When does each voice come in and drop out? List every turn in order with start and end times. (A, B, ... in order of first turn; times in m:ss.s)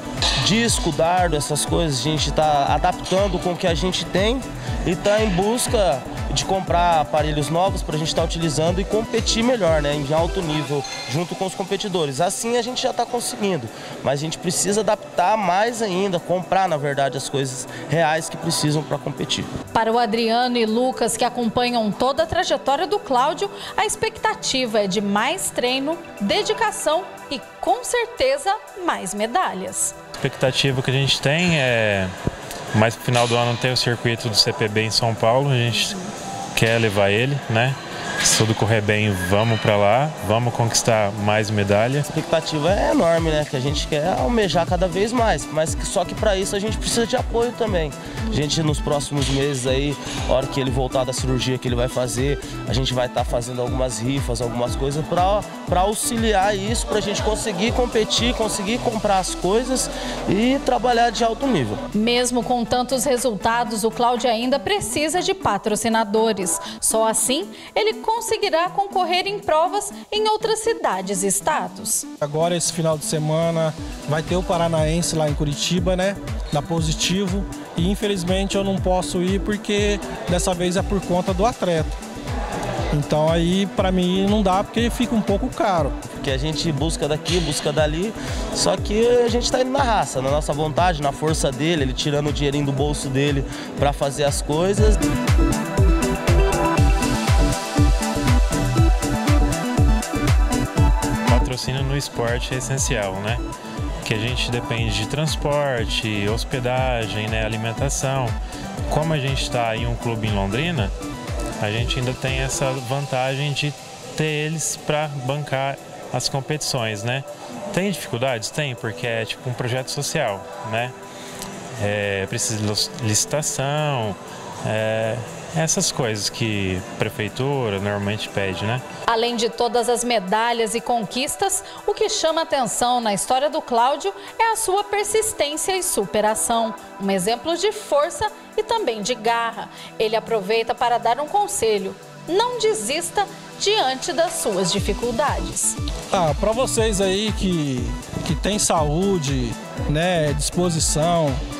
0:00.4-0:19.5 A
0:19.7-0:29.9 B
0:30.2-0:32.1 C
0:32.7-0:42.1 C
0:42.1-1:01.8 A
1:01.9-1:12.1 B
1:12.2-1:22.0 D
1:22.9-1:26.0 D
1:26.1-1:35.0 A
1:41.3-1:43.4 C
1:44.0-1:48.4 C
1:48.9-1:50.9 C
1:51.6-2:00.9 C
2:01.8-2:08.8 C
2:09.1-2:25.8 B
2:26.1-2:31.4 D